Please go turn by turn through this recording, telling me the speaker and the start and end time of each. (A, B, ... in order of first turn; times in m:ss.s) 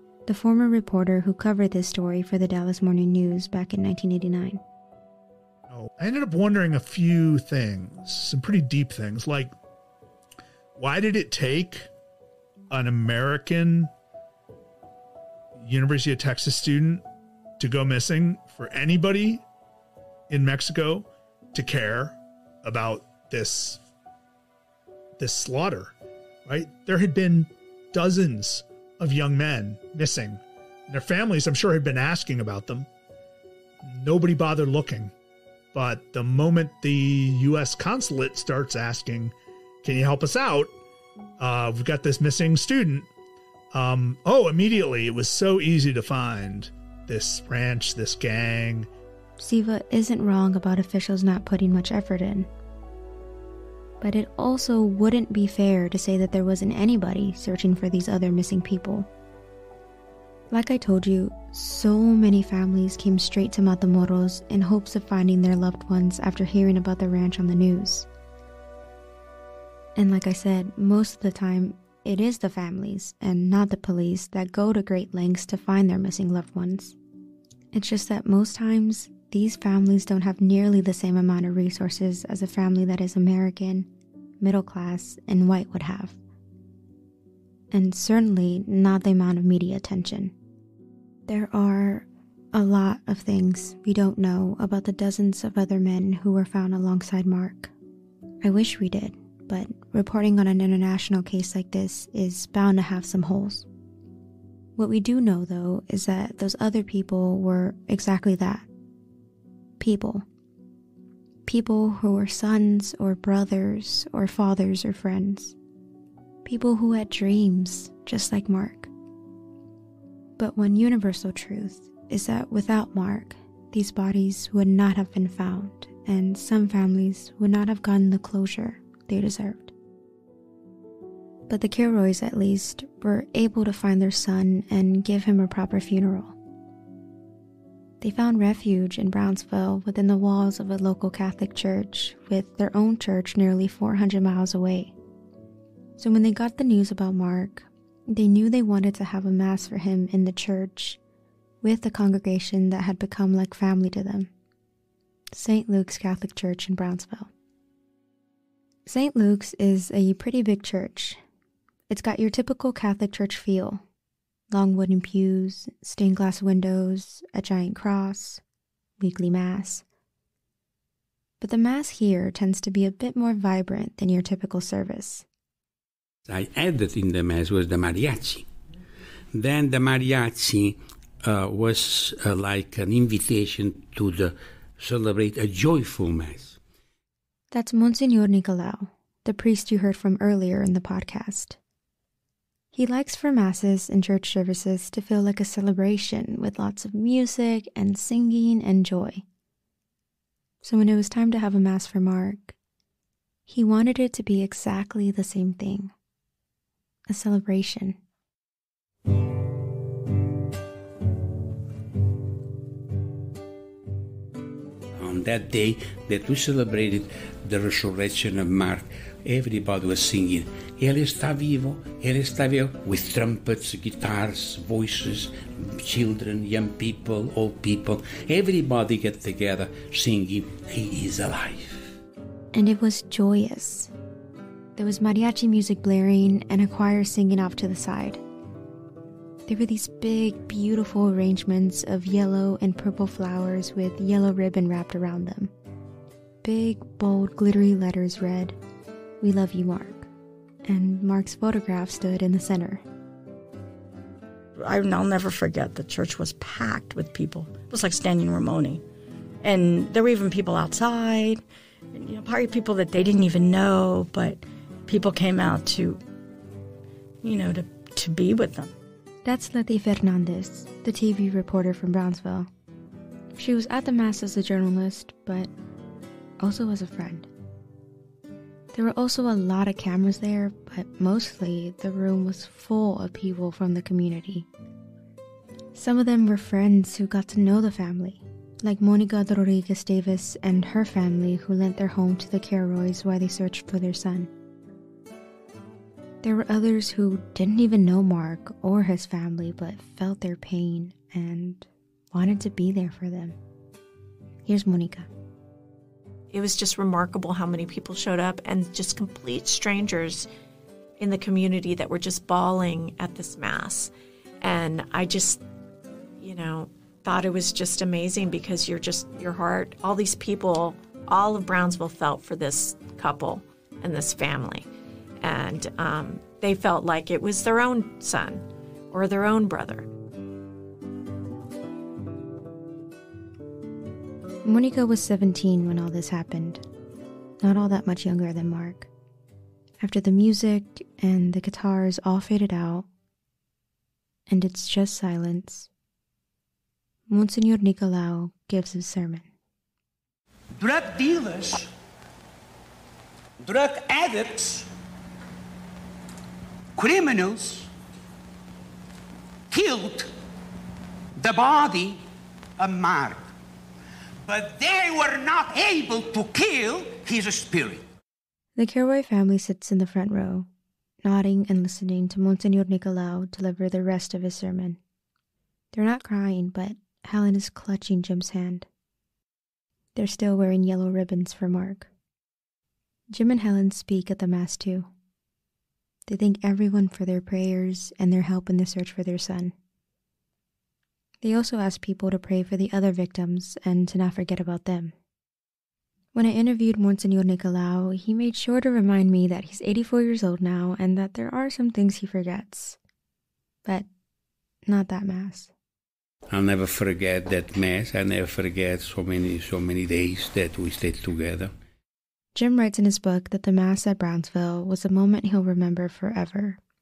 0:00.3-0:04.6 A
0:05.7-0:09.5 B
0:10.8-0:11.9 B
0:12.7-0:13.9 B
0:15.6-0:17.0 B
0:17.6-0:19.4 B
0:20.3-0:23.8 B
0:25.2-0:25.9 B
0:26.5-0:32.9 B
0:33.8-0:35.1 B
0:35.7-0:40.7 B
0:41.4-0:43.1 B
0:43.7-0:48.9 B
0:49.4-0:52.5 A
0:54.0-0:59.1 A
1:00.5-1:08.1 A
1:10.0-1:17.0 A
1:17.7-1:23.9 A
1:24.4-1:26.2 A
1:27.7-1:30.3 A
1:31.3-1:37.7 A
1:38.4-1:43.7 A
1:44.8-1:48.7 A
1:49.8-1:50.2 A
1:51.5-1:55.6 A
1:56.4-1:58.9 A
2:00.4-2:09.7 A
2:11.5-2:16.4 A
2:18.0-2:24.9 A
2:26.0-2:31.0 A
2:31.6-2:34.3 A
2:35.3-2:37.3 A
2:38.9-2:41.2 A
2:41.9-2:43.8 A
2:44.5-2:48.4 A
2:49.0-2:49.8 A
2:51.4-2:55.2 A
2:56.3-2:58.5 C
2:59.3-3:06.6 C
3:07.5-3:11.6 A
3:12.7-3:19.2 A
3:20.6-3:22.6 A
3:23.5-3:25.9 A
3:27.1-3:28.0 A
3:35.0-3:52.0 C
3:52.5-3:53.9 A
3:54.8-3:58.2 A
3:59.5-4:05.5 A
4:06.4-4:08.6 A
4:09.2-4:10.1 A
4:10.7-4:12.8 A
4:14.6-4:18.8 D
4:19.4-4:26.0 D
4:27.2-4:28.7 D
4:29.2-4:32.5 A
4:33.4-4:35.5 A
4:36.4-4:37.3 A
4:38.7-4:44.5 A
4:45.8-4:54.3 A
4:56.2-5:03.4 A
5:04.5-5:05.1 A
5:06.3-5:10.3 E
5:11.0-5:13.9 E
5:14.4-5:15.4 E
5:16.2-5:24.7 E
5:25.2-5:29.9 E
5:34.4-5:36.6 A
5:37.4-5:38.9 A
5:39.8-5:42.9 A
5:44.3-5:45.7 A
5:47.1-5:49.3 A
5:50.6-5:51.7 F
5:53.4-5:54.7 F
5:56.8-5:57.7 F
5:59.5-6:00.1 F
6:01.2-6:02.0 F
6:02.6-6:03.2 F
6:04.3-6:07.8 F
6:08.6-6:10.5 A
6:11.0-6:14.8 A
6:15.7-6:18.7 A
6:20.0-6:21.9 A
6:23.1-6:24.9 A
6:26.1-6:29.5 A
6:31.2-6:34.9 A
6:36.1-6:42.8 A
6:44.6-6:45.5 A
6:46.3-6:51.5 C
6:52.4-6:56.6 A